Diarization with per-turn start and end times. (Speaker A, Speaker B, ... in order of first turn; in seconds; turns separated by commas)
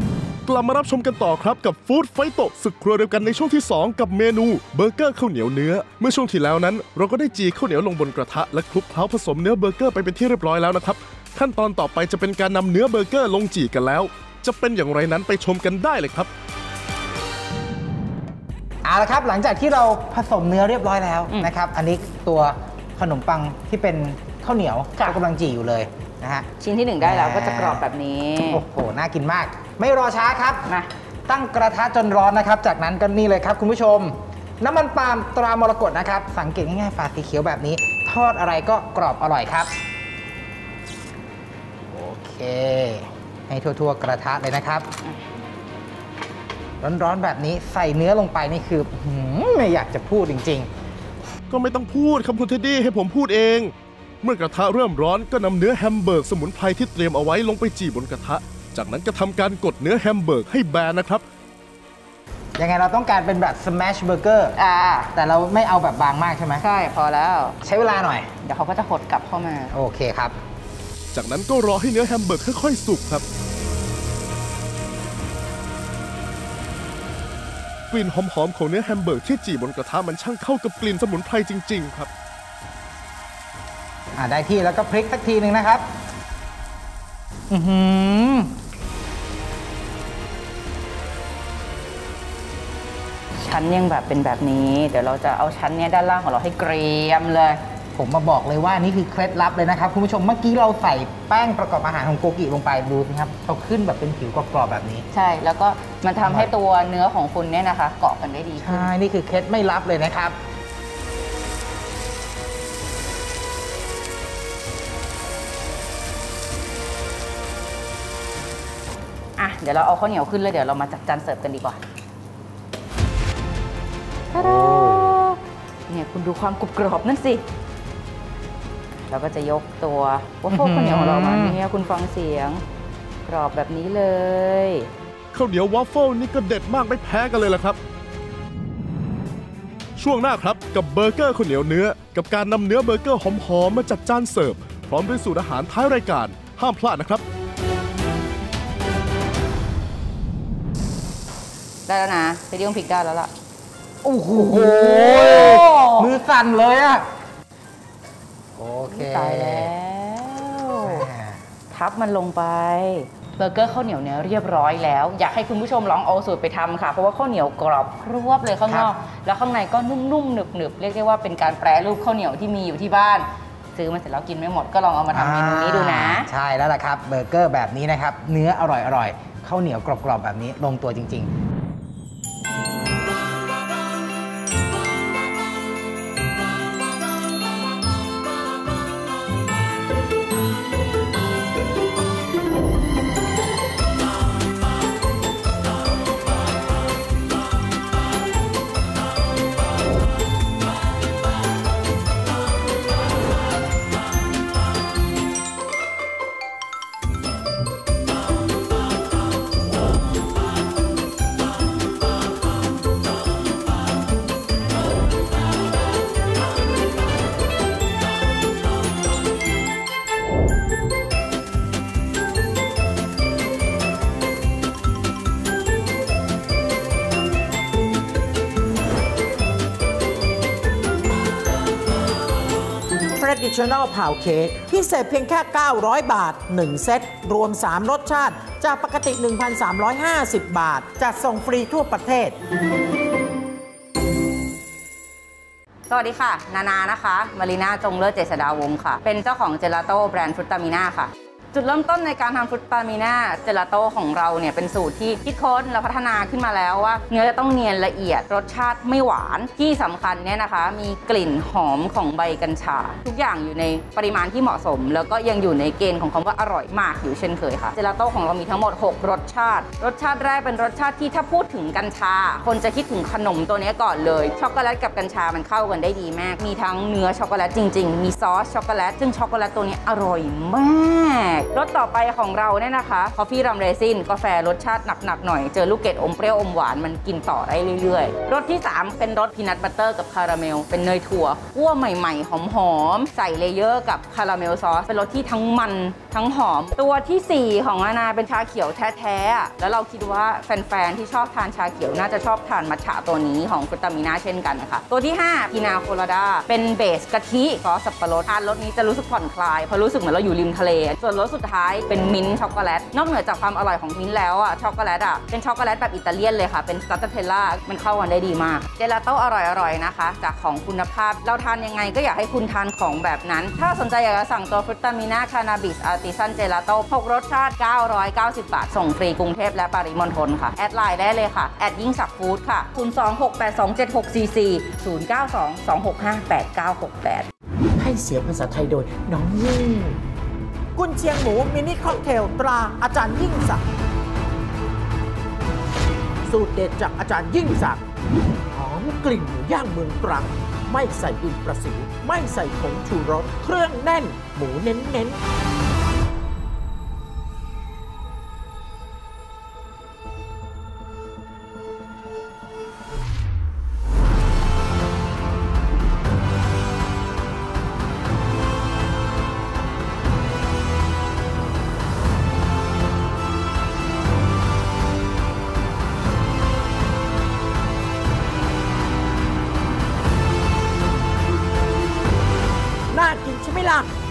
Speaker A: 0.5-16.3, Speaker B: 18.8-26.5, Speaker C: 26.6-28.6, Speaker B: 27.0-27.9, Speaker B: 28.4-30.7, Speaker B: 31.3-39.7, Speaker B: 41.9-44.9, Speaker B: 46.8-50.7, Speaker A: 51.5-61.2, Speaker B: 62.6-66.7, Speaker C: 64.6-65.1, Speaker C: 66.6-67.6, Speaker B: 67.6-68.3, Speaker C: 68.4-69.8, Speaker B: 69.7-70.4, Speaker A: 71.1-73.2, Speaker A: 77.9-82.1, Speaker B: 84.2-85.9, Speaker B: 87.5-88.5, Speaker C: 93.4-97.6, Speaker B: 98.0-105.1, Speaker C: 105.1-108.9, Speaker B: 106.2-106.5, Speaker B: 108.6-110.4, Speaker C: 119.4-121.8, Speaker C: 124.3-127.4, Speaker B: 124.3-125.2, Speaker C: 129.1-132.6, Speaker B: 130.5-131.6, Speaker C: 133.2-134.9, Speaker A: 135.3-137.8, Speaker A: 140.0-147.2, Speaker C: 151.9-153.3, Speaker B: 154.0-157.1, Speaker C: 154.4-156.1, Speaker B: 158.6-159.7, Speaker C: 158.9-161.1, Speaker B: 160.8-161.4, Speaker C: 161.7-176.3, Speaker B: 175.1-181.3, Speaker D: 233.2-242.4, Speaker C: 245.9-337.3, Speaker D: 337.8-340.0, Speaker D: 340.8-343.6, Speaker D: 346.3-347.8, Speaker D: 348.5-355.2, Speaker D: 382.9-383.9